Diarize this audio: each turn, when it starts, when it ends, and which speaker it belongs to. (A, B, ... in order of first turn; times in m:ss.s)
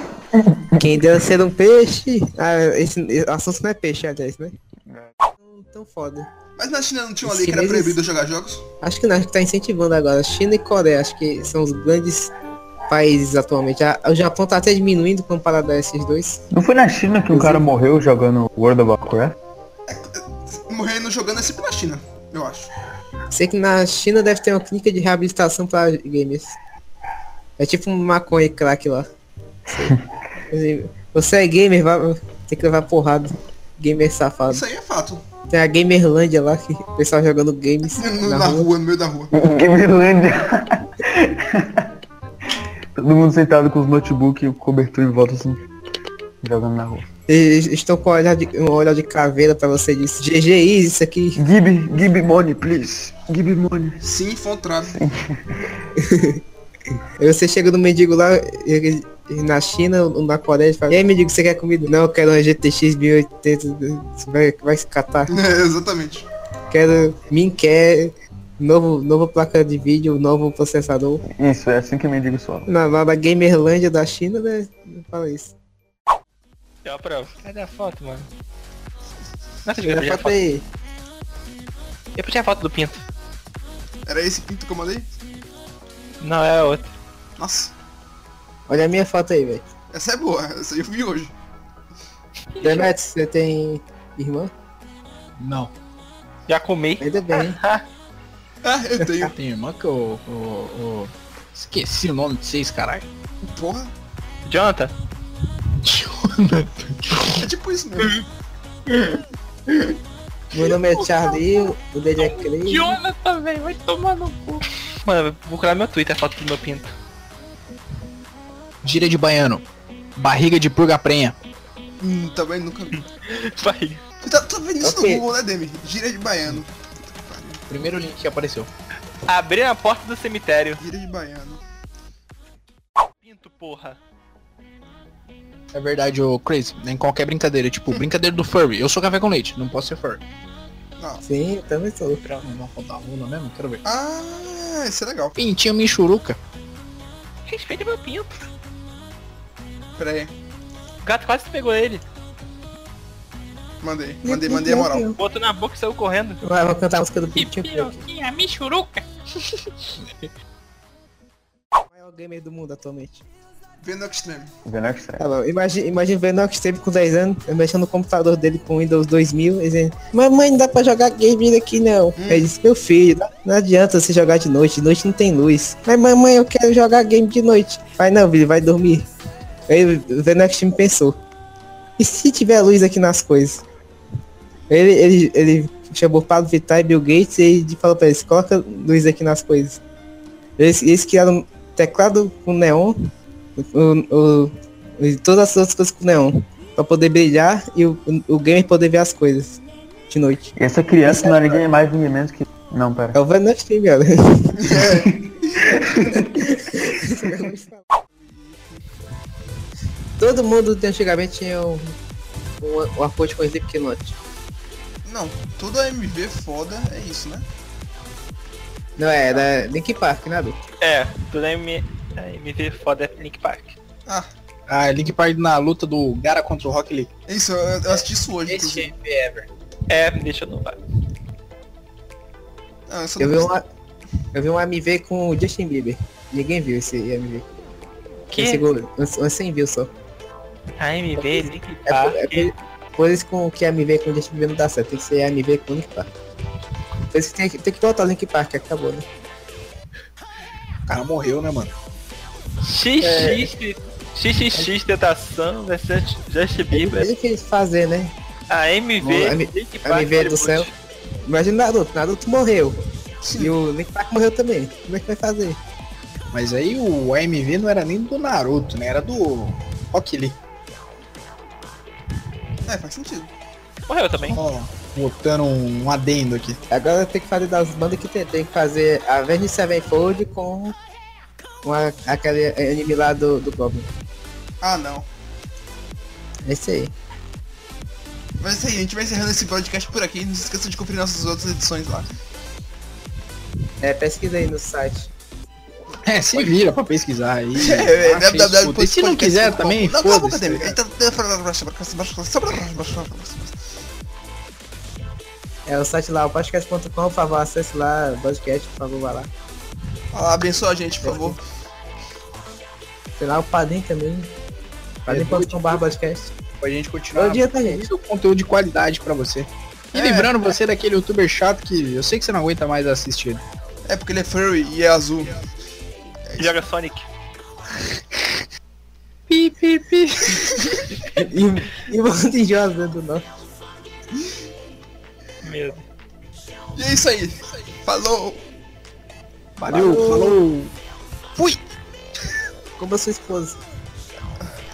0:00.3-0:01.0 A
0:00.8-0:04.6 B
0:04.8-0:05.1 A
0:05.4-0:06.3 B
0:06.6-0:08.6 C
0:07.2-0:08.0 B
0:08.8-0:12.3 B
0:12.9-0:16.4 B
0:16.5-0:19.4 A
0:17.3-0:17.6 B
0:19.9-0:22.7 C
0:23.3-0:26.6 B
0:27.6-0:29.1 B
0:30.5-0:34.6 B
0:34.5-0:35.2 C
0:35.5-0:38.7 B
0:38.0-0:39.3 C
0:39.3-0:41.9 A
0:43.0-0:45.6 A
0:46.4-0:47.0 A
0:47.3-0:51.4 B
0:51.4-0:54.0 A
0:54.0-0:55.0 C
0:54.8-0:55.7 A
0:57.2-1:05.3 B
1:05.3-1:06.3 C
1:06.7-1:11.2 B
1:11.3-1:12.7 A
1:12.6-1:15.5 B
1:16.8-1:18.3 D
1:19.6-1:20.4 D
1:19.8-1:20.6 B
1:22.1-1:23.0 D
1:24.0-1:25.1 C
1:26.2-1:26.9 D
1:27.4-1:27.7 C
1:28.7-1:29.7 B
1:29.9-1:31.3 C
1:32.6-1:32.9 D
1:32.6-1:34.5 B
1:35.4-1:35.7 E
1:36.5-1:37.8 D
1:37.0-1:37.6 B
1:38.6-1:39.3 C
1:39.4-1:43.0 E
1:43.5-1:43.9 C
1:44.4-1:44.9 D
1:45.8-1:47.5 E
1:47.3-1:48.1 C
1:48.9-1:49.2 E
1:50.5-1:53.0 B
1:50.5-1:54.6 E
1:55.0-1:56.9 D
1:58.8-1:59.6 E
2:00.1-2:01.4 E
2:02.0-2:03.0 C
2:03.2-2:04.0 D
2:04.2-2:07.6 C
2:04.8-2:05.2 B
2:07.7-2:08.7 E
2:09.2-2:10.8 D
2:10.8-2:11.6 C
2:13.2-2:14.0 D
2:15.7-2:20.2 E
2:21.2-2:22.2 B
2:22.4-2:23.8 E
2:23.8-2:25.3 C
2:25.4-2:26.4 E
2:27.5-2:28.4 D
2:30.0-2:30.3 C
2:31.0-2:32.0 D
2:33.8-2:35.1 C
2:34.2-2:35.2 B
2:35.2-2:36.4 D
2:36.4-2:38.0 B
2:37.3-2:39.0 E
2:40.0-2:40.3 E
2:41.9-2:43.2 B
2:43.8-2:44.5 C
2:44.6-2:45.2 A
2:45.2-2:59.1 B
2:52.2-2:52.5 C
2:59.7-3:01.2 B
3:02.0-3:03.6 B
3:04.7-3:09.8 B
3:10.6-3:12.9 B
3:13.6-3:21.6 B
3:20.6-3:23.2 A
3:23.1-3:24.6 B
3:24.6-3:25.1 C
3:25.7-3:26.4 A
3:26.5-3:27.8 B
3:28.1-3:28.8 C
3:30.2-3:31.9 B
3:32.6-3:34.2 B
3:35.0-3:37.4 C
3:39.0-3:40.6 B
3:40.8-3:43.8 D
3:44.7-3:47.1 E
3:47.3-3:48.9 C
3:47.9-3:49.5 E
3:49.9-3:50.8 D
3:52.9-3:53.5 C
3:53.2-3:53.6 B
3:54.3-3:57.5 B
3:58.3-3:58.6 D
3:58.4-3:59.9 B
4:00.8-4:02.5 D
4:01.2-4:06.1 B
4:07.1-4:09.0 B
4:10.8-4:11.7 E
4:12.6-4:17.1 D
4:13.0-4:13.5 B
4:16.7-4:18.1 B
4:18.5-4:20.7 D
4:19.0-4:20.7 B
4:21.2-4:22.8 B
4:23.2-4:23.6 C
4:23.4-4:25.6 B
4:26.3-4:30.4 E
4:32.6-4:33.3 C
4:33.9-4:34.4 D
4:34.3-4:36.6 E
4:36.7-4:40.8 B
4:41.6-4:43.9 B
4:44.6-4:45.1 C
4:46.4-4:46.9 B
4:48.4-4:52.1 C
4:53.8-4:55.1 B
4:56.0-5:00.8 E
4:57.5-5:03.6 C
5:05.6-5:09.3 B
5:10.1-5:11.4 C
5:11.0-5:11.4 B
5:13.2-5:14.3 B
5:15.1-5:15.8 E
5:15.1-5:16.3 B
5:16.6-5:23.4 E
5:17.1-5:17.9 B
5:19.9-5:20.4 C
5:23.8-5:25.4 C
5:26.4-5:27.1 D
5:29.3-5:30.7 E
5:31.1-5:33.3 B
5:35.4-5:35.8 D
5:36.7-5:38.4 C
5:39.6-5:40.7 E
5:39.7-5:40.4 B
5:42.8-5:43.6 B